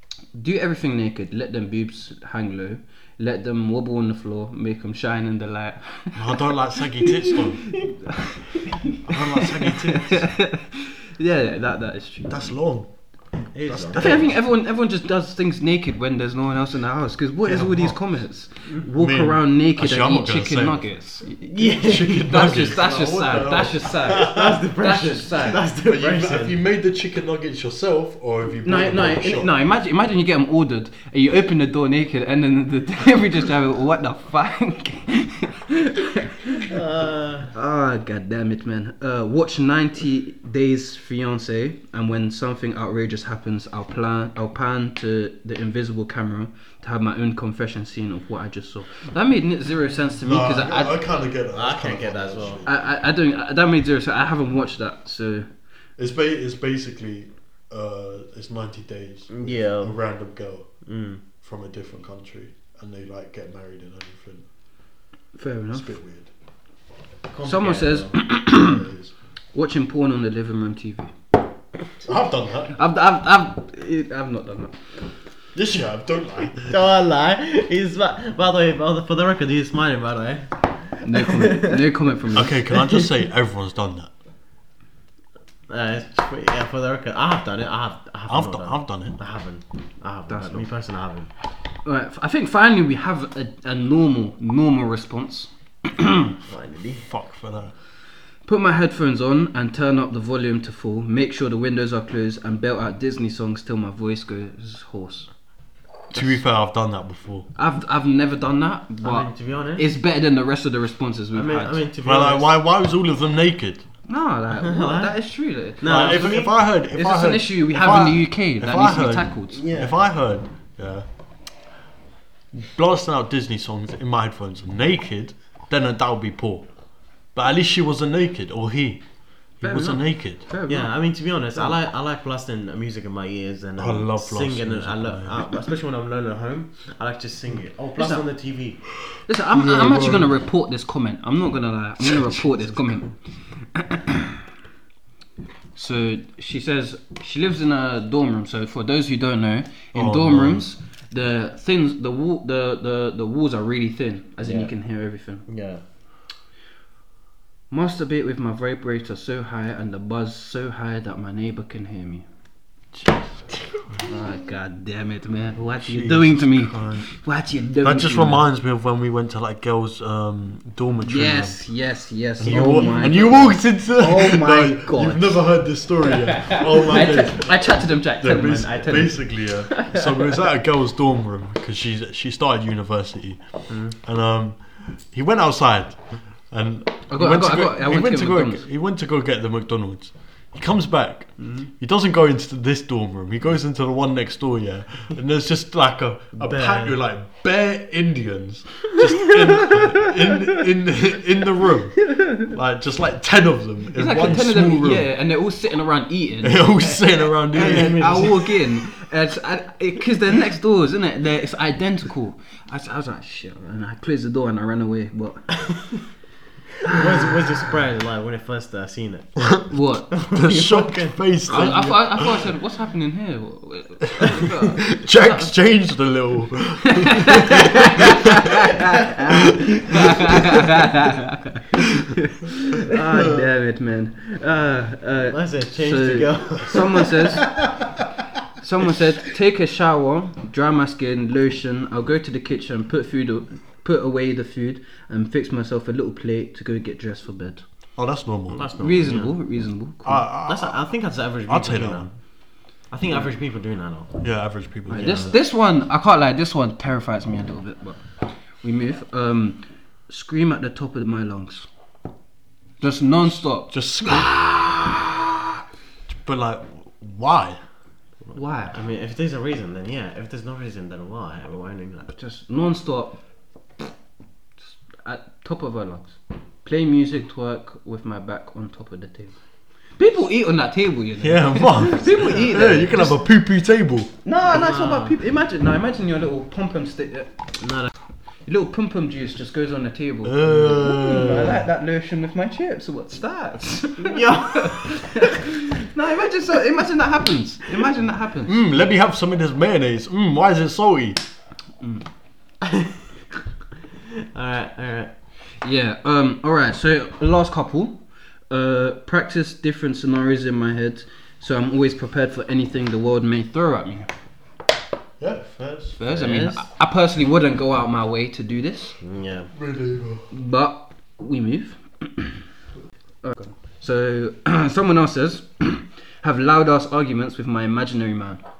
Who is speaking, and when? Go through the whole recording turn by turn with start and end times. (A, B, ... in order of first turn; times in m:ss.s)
0:00.3-0:12.5 A
0:06.2-0:07.9 B
0:09.0-0:10.4 B
0:12.3-0:12.9 B
0:13.5-0:14.3 C
0:13.7-0:14.4 B
0:13.9-0:25.6 A
0:17.5-0:18.0 B
0:18.9-0:20.8 B
0:21.5-0:22.3 C
0:21.7-0:24.6 B
0:24.0-0:26.6 C
0:25.8-0:29.5 B
0:28.6-0:36.8 A
0:36.6-0:37.5 C
0:37.5-0:51.0 A
0:50.2-0:52.7 B
0:51.5-0:52.6 C
0:52.6-0:55.5 A
0:56.0-1:00.8 B
0:59.3-1:00.0 C
1:00.8-1:01.2 C
1:01.4-1:04.5 B
1:05.4-1:06.0 A
1:05.7-1:06.3 B
1:07.3-1:08.2 C
1:07.4-1:08.8 A
1:08.5-1:09.1 B
1:09.5-1:11.2 A
1:12.0-1:12.8 B
1:12.8-1:14.8 A
1:15.5-1:16.8 B
1:16.7-1:21.9 C
1:21.0-1:22.6 A
1:22.3-1:24.1 B
1:22.7-1:23.1 C
1:25.7-1:31.3 C
1:28.3-1:29.2 B
1:30.3-1:30.7 A
1:31.8-1:36.4 A
1:36.5-1:37.1 C
1:37.0-1:37.7 B
1:38.4-1:45.3 A
1:46.1-1:47.5 B
1:47.6-1:51.8 A
1:49.0-1:49.9 C
1:51.3-1:52.5 C
1:52.0-1:53.9 B
1:54.1-1:59.6 A
1:54.5-1:55.2 C
1:55.8-1:56.6 C
1:55.8-2:01.1 B
1:59.5-2:00.0 C
2:02.5-2:06.7 B
2:07.3-2:09.0 B
2:09.6-2:10.4 B
2:09.6-2:10.9 A
2:10.7-2:18.8 C
2:13.8-2:15.5 B
2:18.0-2:18.2 A
2:19.3-2:24.4 A
2:19.5-2:20.3 B
2:22.0-2:23.1 B
2:25.8-2:35.5 A
2:29.9-2:30.6 B
2:34.4-2:34.7 C
2:35.5-2:35.8 C
2:37.7-2:42.3 A
2:42.9-2:44.0 B
2:44.0-2:48.4 A
2:45.8-2:47.2 B
2:47.8-2:51.6 B
2:51.0-2:55.5 A
2:52.4-3:25.1 B
2:56.1-3:00.3 A
2:58.6-2:59.1 C
3:03.7-3:04.0 C
3:07.1-3:08.6 A
3:11.4-3:11.7 C
3:16.4-3:17.0 C
3:24.0-3:35.6 A
3:26.4-3:28.4 B
3:27.5-3:28.6 C
3:36.9-3:39.5 C
3:39.4-3:39.7 B
3:39.7-3:40.2 A
3:40.2-3:42.2 C
3:40.3-3:42.4 B
3:41.5-3:45.5 A
3:44.4-3:48.3 B
3:47.0-3:57.6 A
3:49.9-3:50.3 B
3:55.3-3:57.7 C
3:58.6-4:07.6 A
4:08.0-4:08.7 B
4:08.5-4:09.3 C
4:08.8-4:10.3 A
4:10.0-4:10.8 B
4:10.5-4:12.1 C
4:11.5-4:12.1 B
4:12.9-4:14.2 C
4:14.2-4:15.4 B
4:14.9-4:15.4 C
4:15.0-4:18.0 A
4:18.6-4:21.7 A
4:22.8-4:24.2 A
4:23.7-4:25.2 B
4:26.1-4:27.6 B
4:28.3-4:32.1 C
4:28.3-4:28.8 A
4:32.1-4:33.2 A
4:35.0-4:39.4 A
4:40.0-4:43.2 A
4:41.2-4:44.1 B
4:44.2-4:47.6 A
4:44.4-4:45.1 C
4:47.6-4:47.9 C
4:48.4-4:58.6 A
4:50.2-4:51.6 B
4:54.0-4:55.2 C
4:58.5-5:01.2 B
5:02.6-5:03.1 C
5:04.3-5:05.1 C
5:05.6-5:14.1 A
5:15.2-5:16.0 B
5:16.0-5:19.0 A
5:16.1-5:16.6 C
5:19.0-5:19.5 C
5:19.6-5:20.3 B
5:20.3-5:22.5 A
5:23.2-5:28.4 A